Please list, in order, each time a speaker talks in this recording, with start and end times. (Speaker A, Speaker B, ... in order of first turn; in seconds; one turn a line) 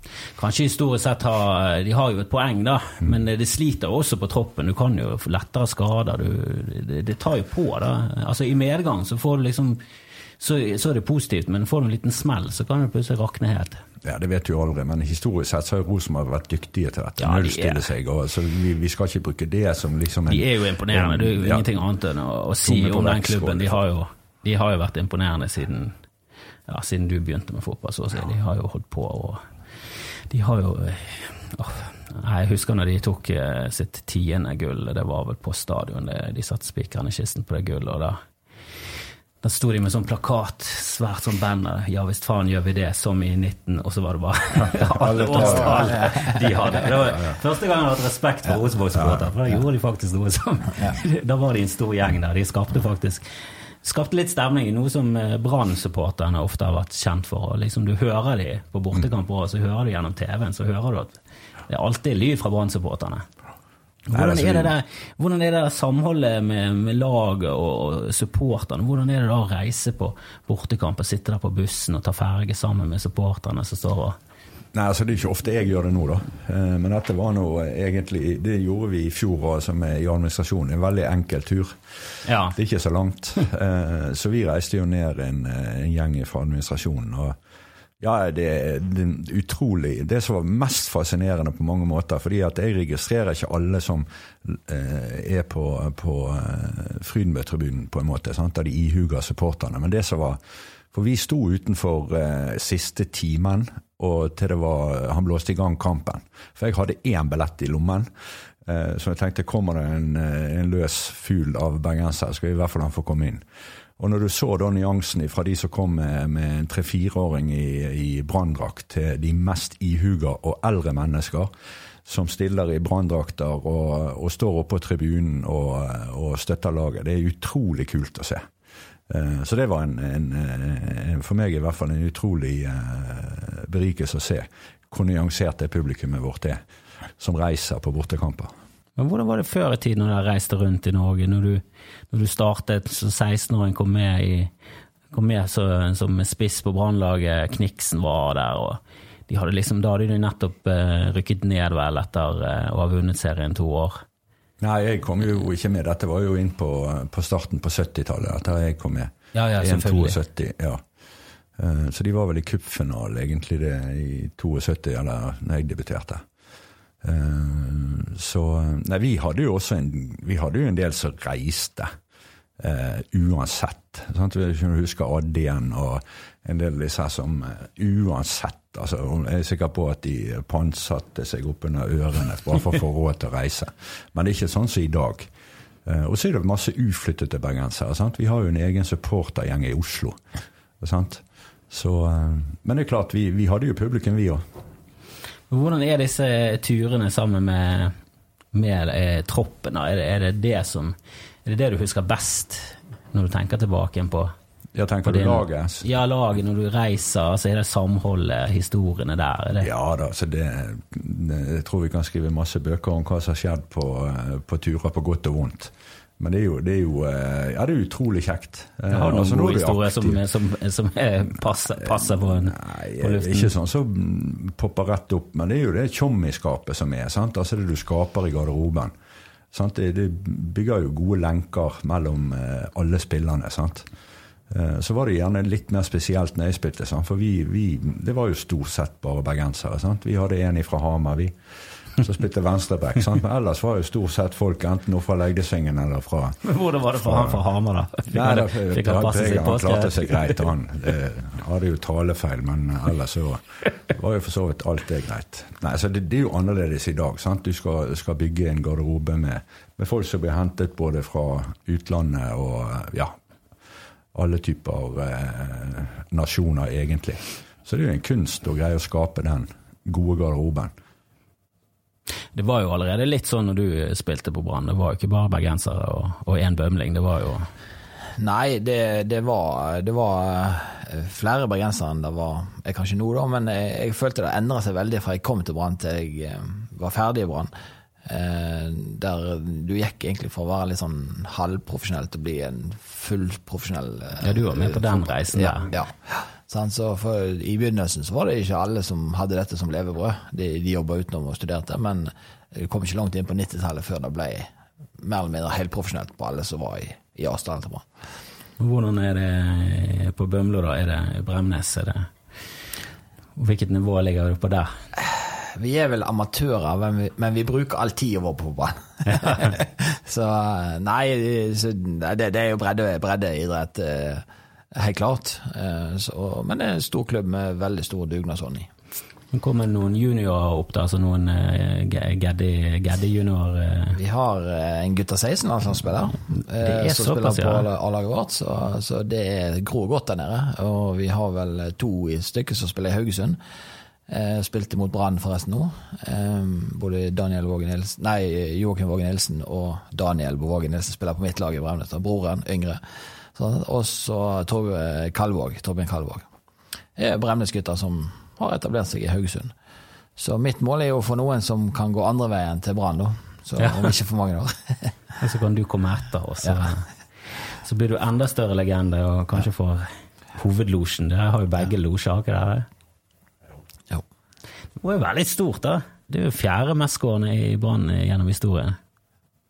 Speaker A: 0.4-9.8
Speaker A: 10.4-13.8
Speaker B: 14.0-21.7
Speaker A: 17.2-17.9
Speaker A: 20.3-26.0
Speaker B: 22.6-23.8
Speaker A: 26.7-29.4
Speaker A: 30.3-38.2
Speaker A: 39.4-53.2
Speaker B: 44.6-47.4
Speaker C: 45.8-46.2
Speaker A: 53.8-63.3
Speaker A: 64.1-74.2
Speaker B: 64.1-64.7
Speaker B: 74.7-81.8
Speaker A: 82.3-82.6
Speaker B: 82.5-87.4
Speaker B: 88.0-100.4
Speaker B: 100.9-108.1
Speaker B: 108.7-113.4
Speaker B: 114.0-121.5
Speaker B: 122.0-128.5
Speaker B: 129.1-136.6
Speaker B: 137.2-138.5
Speaker A: 139.0-144.5
Speaker A: 145.1-154.0
Speaker B: 154.6-160.8
Speaker A: 159.3-160.2
Speaker B: 161.6-166.2
Speaker B: 167.0-171.9
Speaker B: 172.6-185.3
Speaker B: 185.9-190.2
Speaker B: 190.8-194.4
Speaker A: 195.5-197.9
Speaker A: 198.5-204.3
Speaker B: 204.8-205.8
Speaker A: 205.0-209.7
Speaker B: 209.6-220.2
Speaker A: 218.9-223.5
Speaker B: 221.8-228.9
Speaker B: 229.5-233.9
Speaker B: 234.5-241.4
Speaker B: 242.0-246.4
Speaker A: 246.4-250.5
Speaker B: 247.0-247.4
Speaker B: 248.1-263.1
Speaker B: 264.1-270.7
Speaker A: 272.3-277.5
Speaker C: 278.2-287.5
Speaker C: 288.0-307.9
Speaker A: 294.2-295.7
Speaker A: 308.6-312.1
Speaker A: 313.4-314.7
Speaker C: 315.0-328.7
Speaker A: 329.3-334.0
Speaker C: 333.9-343.4
Speaker A: 336.6-337.7
Speaker C: 344.1-352.8
Speaker C: 353.3-356.3
Speaker C: 357.0-359.5
Speaker C: 360.2-364.9
Speaker A: 363.6-363.9
Speaker A: 365.2-366.9
Speaker A: 367.6-372.7
Speaker A: 374.8-378.8